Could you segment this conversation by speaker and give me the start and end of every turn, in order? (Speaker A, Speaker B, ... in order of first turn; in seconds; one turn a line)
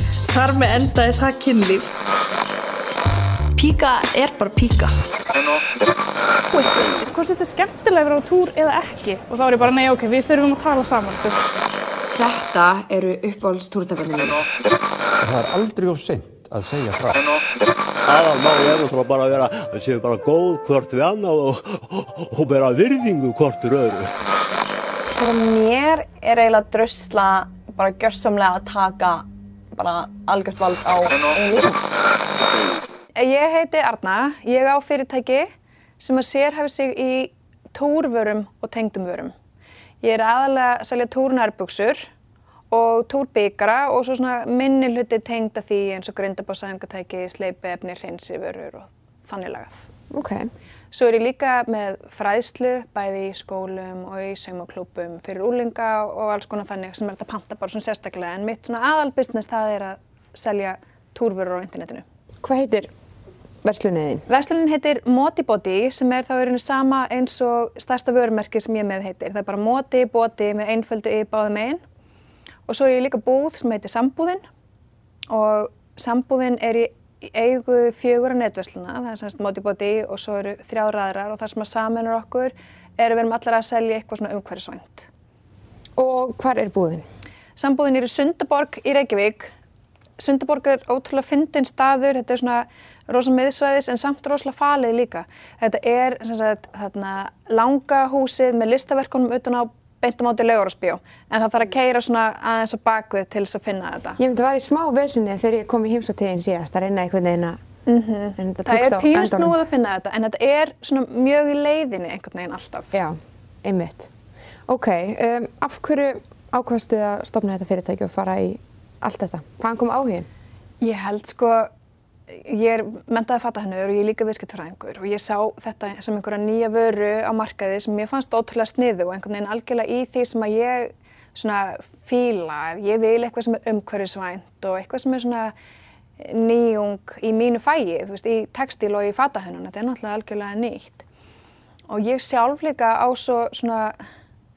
Speaker A: 0.3-1.9
Speaker A: 3.5-4.9
Speaker B: 6.8-11.4
Speaker C: 12.2-14.4
Speaker D: 15.2-17.2
Speaker E: 18.1-24.2
Speaker F: 25.1-31.8
Speaker G: 33.2-35.5
Speaker G: 36.0-39.3
Speaker G: 40.0-42.1
Speaker G: 42.7-49.8
Speaker C: 50.1-50.5
Speaker G: 50.9-62.0
Speaker C: 62.4-62.9
Speaker C: 63.6-64.3
Speaker G: 64.3-71.8
Speaker G: 72.7-74.5
Speaker G: 75.3-85.1
Speaker C: 86.0-87.0
Speaker G: 87.6-89.5
Speaker G: 90.2-104.2
Speaker C: 104.2-107.6
Speaker G: 107.9-112.9
Speaker C: 108.4-109.6
Speaker C: 112.9-114.1
Speaker C: 114.7-120.3
Speaker G: 120.8-121.7
Speaker G: 122.3-135.5
Speaker G: 136.2-141.1
Speaker G: 141.9-144.0